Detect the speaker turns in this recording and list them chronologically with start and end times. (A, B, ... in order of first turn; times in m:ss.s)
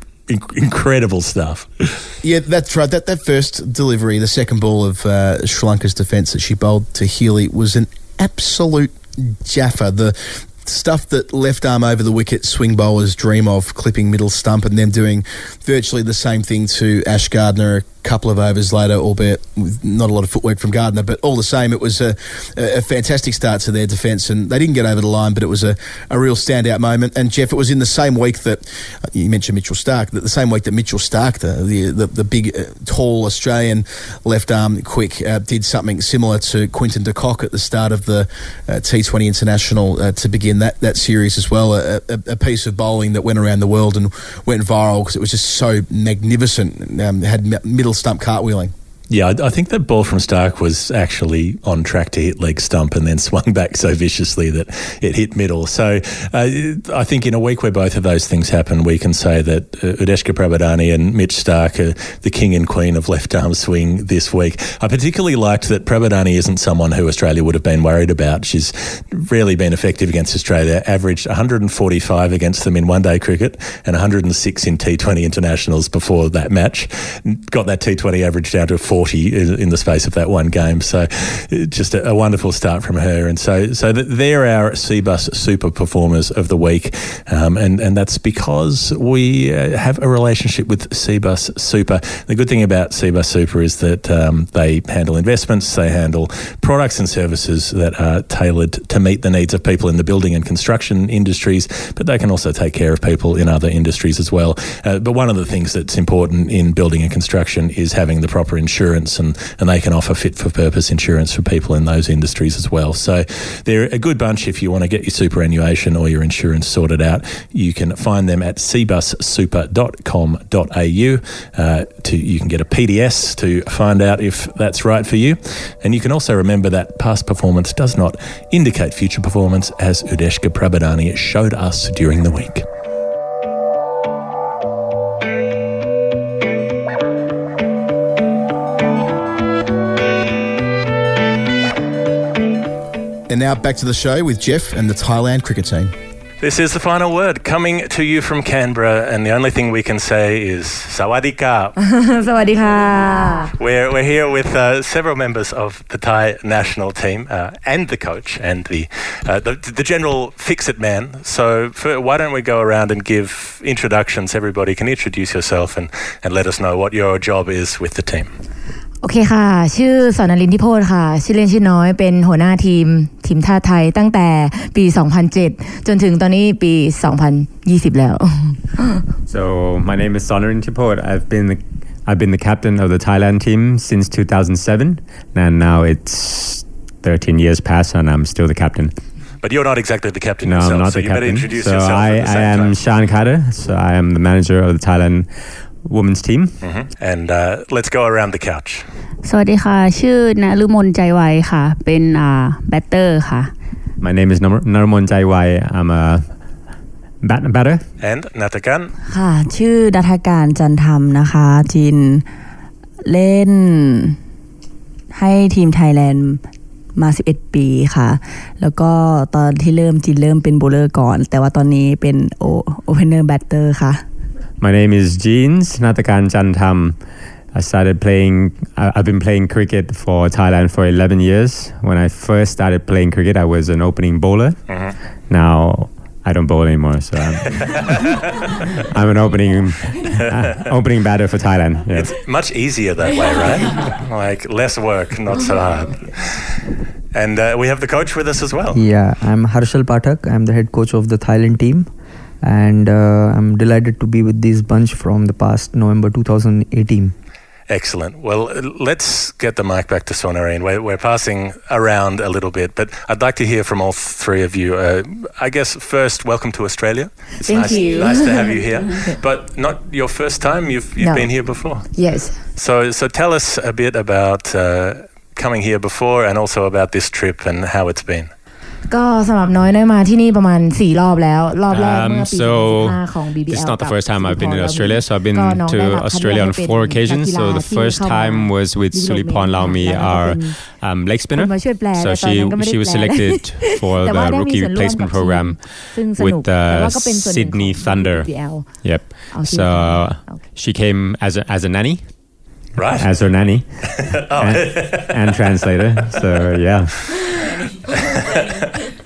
0:00.3-0:02.1 A
0:02.2-0:48.7 B
0:49.1-2:12.7 A
2:23.3-2:25.9 B
2:26.4-2:31.8 A
2:31.8-2:33.5 C
2:33.6-2:48.3 A
2:49.0-2:59.0 C
2:59.3-3:08.9 D
3:09.4-3:12.8 A
3:10.4-3:16.6 D
3:16.6-3:18.8 A
3:19.2-3:23.5 E
3:24.0-3:26.3 D
3:27.2-3:27.8 D
3:28.0-3:28.9 A
3:29.0-3:32.2 F
3:33.0-3:34.2 F
3:35.1-3:36.4 F
3:36.9-3:44.0 F
3:44.6-3:58.2 D
3:54.7-3:55.0 A
3:57.6-3:58.5 A
3:58.9-4:02.2 D
4:00.1-4:00.7 A
4:01.9-4:06.6 A
4:07.1-4:08.8 A
4:08.7-4:11.9 G
4:12.4-4:17.1 G
4:17.7-4:38.3 A
4:27.4-4:28.7 C
4:31.0-4:32.4 C
4:38.9-5:00.5 C
4:41.7-5:02.3 D
5:02.7-5:03.3 A
5:02.9-5:07.1 D
5:04.0-5:05.4 A
5:07.8-5:08.9 A